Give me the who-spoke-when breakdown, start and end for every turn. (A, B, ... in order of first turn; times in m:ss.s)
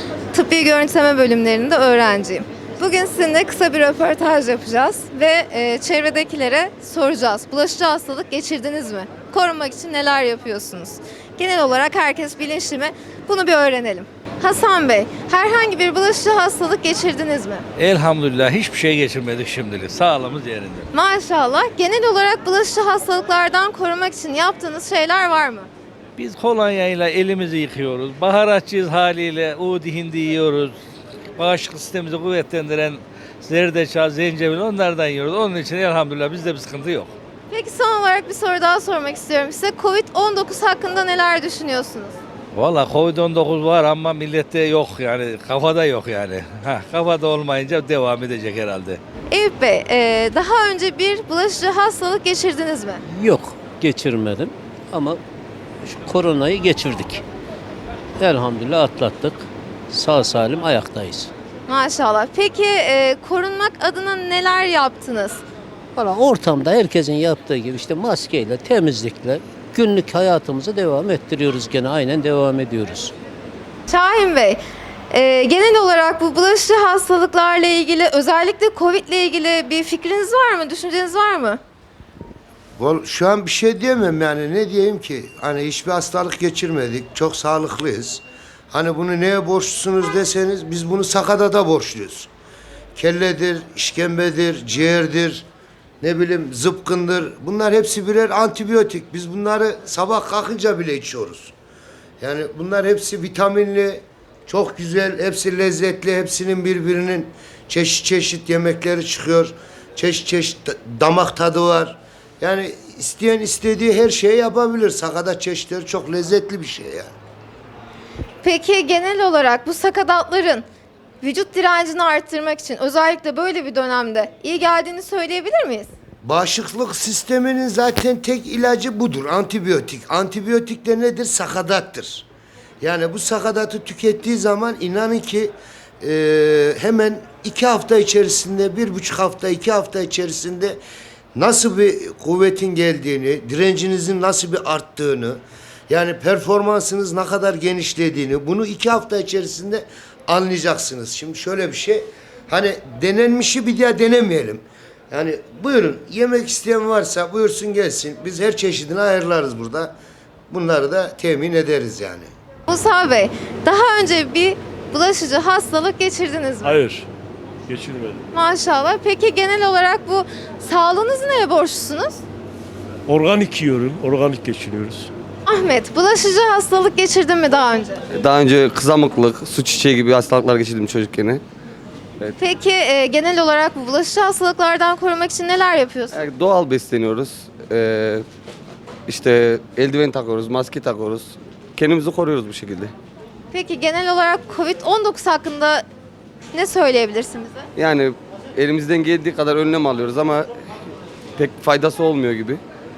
0:00.3-0:17.6 A
0:17.8-0:20.9 B
0:20.9-0:25.7 A
0:26.2-0:30.8 B
0:31.3-0:37.1 B
0:37.5-0:42.2 A
0:42.5-0:49.0 B
0:49.3-0:53.0 A
0:53.1-0:55.2 C
0:55.8-0:57.2 C
0:58.2-1:01.3 C
1:01.7-1:05.4 A
1:06.0-1:13.1 C
1:13.9-1:14.6 A
1:15.1-1:21.6 A
1:22.8-1:32.3 D
1:33.0-1:35.4 D
1:36.0-1:41.5 D
1:42.2-1:57.1 D
1:58.4-2:00.6 A
2:01.2-2:05.9 A
2:06.2-2:12.2 D
2:12.8-2:20.8 D
2:21.4-2:40.0 D
2:40.5-2:42.3 D
2:42.7-2:46.8 A
2:46.6-2:47.0 E
2:47.7-2:48.2 E
2:48.3-2:52.2 A
2:53.1-2:55.1 E
2:55.5-2:58.0 A
2:58.1-3:01.4 F
3:02.4-3:06.2 A
3:06.1-3:08.2 F
3:09.1-3:12.9 F
3:13.5-3:15.8 A
3:16.5-3:17.6 A
3:17.8-3:20.5 F
3:21.4-3:22.6 F